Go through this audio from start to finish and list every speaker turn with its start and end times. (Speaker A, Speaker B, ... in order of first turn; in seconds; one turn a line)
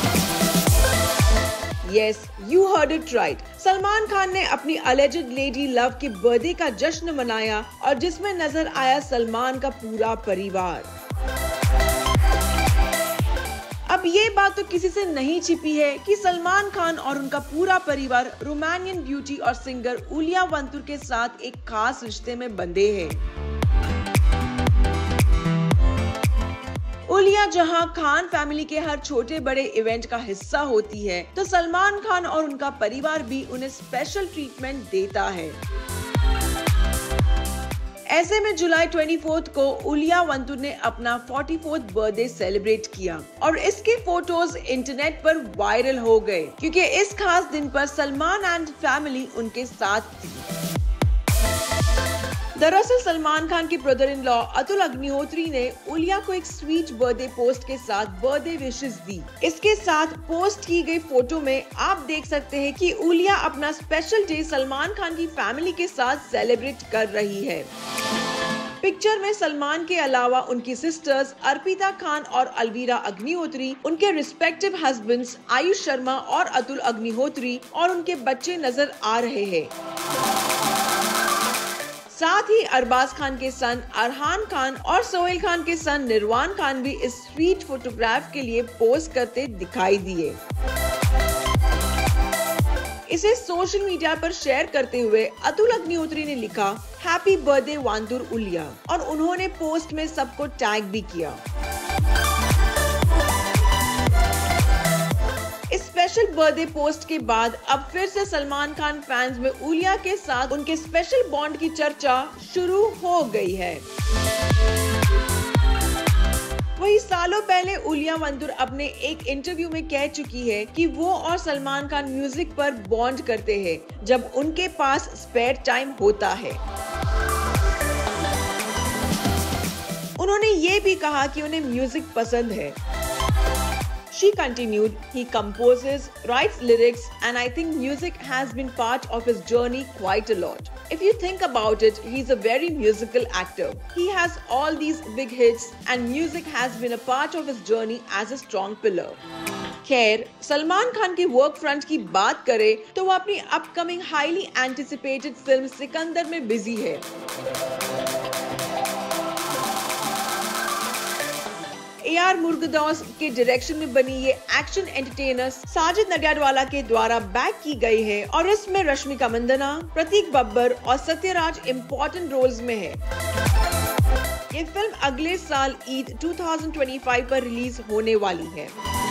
Speaker A: 1.8-10.9
Speaker A: 13.8-23.2
Speaker A: 27.1-35.6
Speaker A: 38.1-50.5
Speaker A: 52.5-67.7
Speaker A: 68.8-79.7
Speaker A: 82.1-90.4
Speaker A: 93.1-101.4
Speaker A: 105.7-113.8
Speaker A: 116.8-126.6
Speaker A: 130.2-132.8
Speaker A: 134.1-149.2
Speaker A: 149.8-157.0
Speaker A: 162.0-173.0
Speaker A: 174.5-178.7